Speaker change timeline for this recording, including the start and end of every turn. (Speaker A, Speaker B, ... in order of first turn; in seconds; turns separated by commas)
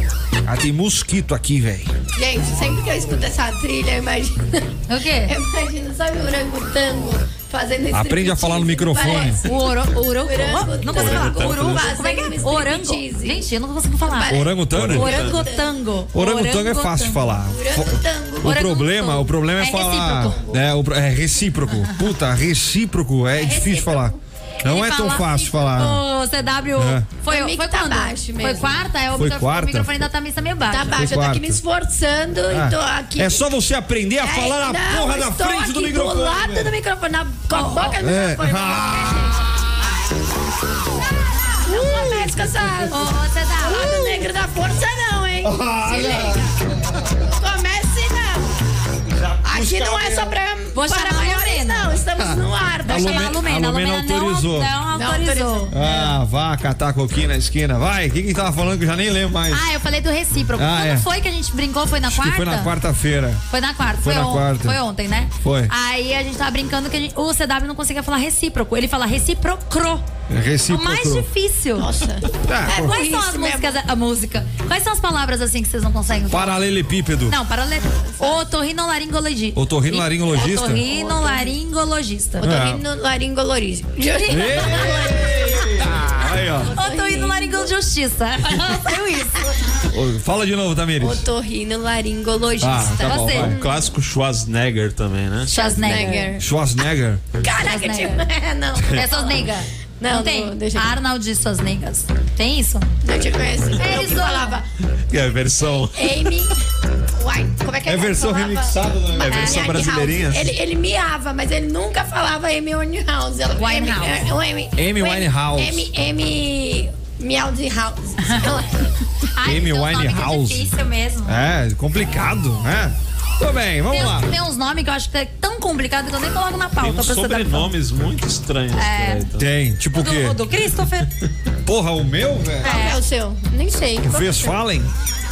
Speaker A: 0.4-1.9, Speaker B: 2.1-4.7, Speaker C: 4.9-5.3, Speaker B: 5.3-13.4, Speaker A: 7.9-9.4, Speaker C: 9.4-14.4, Speaker D: 10.8-11.9, Speaker B: 14.0-15.7, Speaker A: 14.3-15.1, Speaker D: 14.7-15.5, Speaker C: 14.9-17.3, Speaker A: 16.1-26.0, Speaker B: 17.4-18.6, Speaker C: 18.4-20.4, Speaker B: 20.2-20.6, Speaker B: 23.3-24.2, Speaker C: 24.6-31.1, Speaker A: 26.8-27.1, Speaker B: 27.2-28.7, Speaker A: 29.1-29.9, Speaker B: 30.7-33.4, Speaker A: 30.9-31.6, Speaker A: 32.5-36.7, Speaker B: 34.2-39.4, Speaker C: 37.5-38.0, Speaker A: 38.0-39.3, Speaker C: 41.5-42.3, Speaker B: 41.6-46.5, Speaker C: 42.9-44.0, Speaker A: 45.4-47.1, Speaker C: 46.0-46.2, Speaker B: 47.2-48.6, Speaker A: 49.0-50.4, Speaker B: 49.4-53.4, Speaker C: 50.7-52.0, Speaker A: 52.1-54.7, Speaker C: 52.8-55.7, Speaker B: 54.9-56.1, Speaker A: 55.7-59.6, Speaker C: 59.5-62.7, Speaker A: 60.5-61.0, Speaker A: 62.1-63.4, Speaker C: 63.5-70.0, Speaker A: 64.0-64.8, Speaker A: 65.4-65.7, Speaker A: 70.3-71.3, Speaker C: 70.7-71.9, Speaker B: 71.8-73.8, Speaker A: 72.4-73.0, Speaker C: 72.7-76.6, Speaker A: 76.3-77.3, Speaker C: 77.3-82.6, Speaker A: 79.5-80.8, Speaker B: 80.7-81.5, Speaker B: 82.4-87.7, Speaker A: 82.4-82.8, Speaker C: 84.0-85.1, Speaker A: 84.3-86.7, Speaker C: 86.7-89.6, Speaker A: 89.9-91.2, Speaker B: 91.0-93.8, Speaker A: 92.6-93.6, Speaker C: 93.0-93.5, Speaker D: 93.4-95.5, Speaker B: 95.5-96.4, Speaker C: 95.5-96.4, Speaker A: 96.4-97.2, Speaker B: 97.4-100.9, Speaker C: 97.5-98.2, Speaker C: 98.9-102.9, Speaker B: 103.0-104.7, Speaker C: 103.7-104.6, Speaker D: 105.1-106.4, Speaker B: 105.8-106.6, Speaker B: 107.2-118.9, Speaker A: 107.8-110.0, Speaker D: 109.2-110.5, Speaker C: 113.6-114.2, Speaker A: 114.8-115.9, Speaker C: 118.2-118.5, Speaker C: 119.3-121.4, Speaker A: 119.4-120.7, Speaker A: 121.2-124.3, Speaker C: 123.9-127.7, Speaker D: 126.8-129.5, Speaker C: 128.7-129.2, Speaker A: 129.4-130.4, Speaker C: 129.9-131.1, Speaker A: 131.6-132.8, Speaker B: 132.6-134.6, Speaker C: 132.6-133.0, Speaker A: 134.0-134.9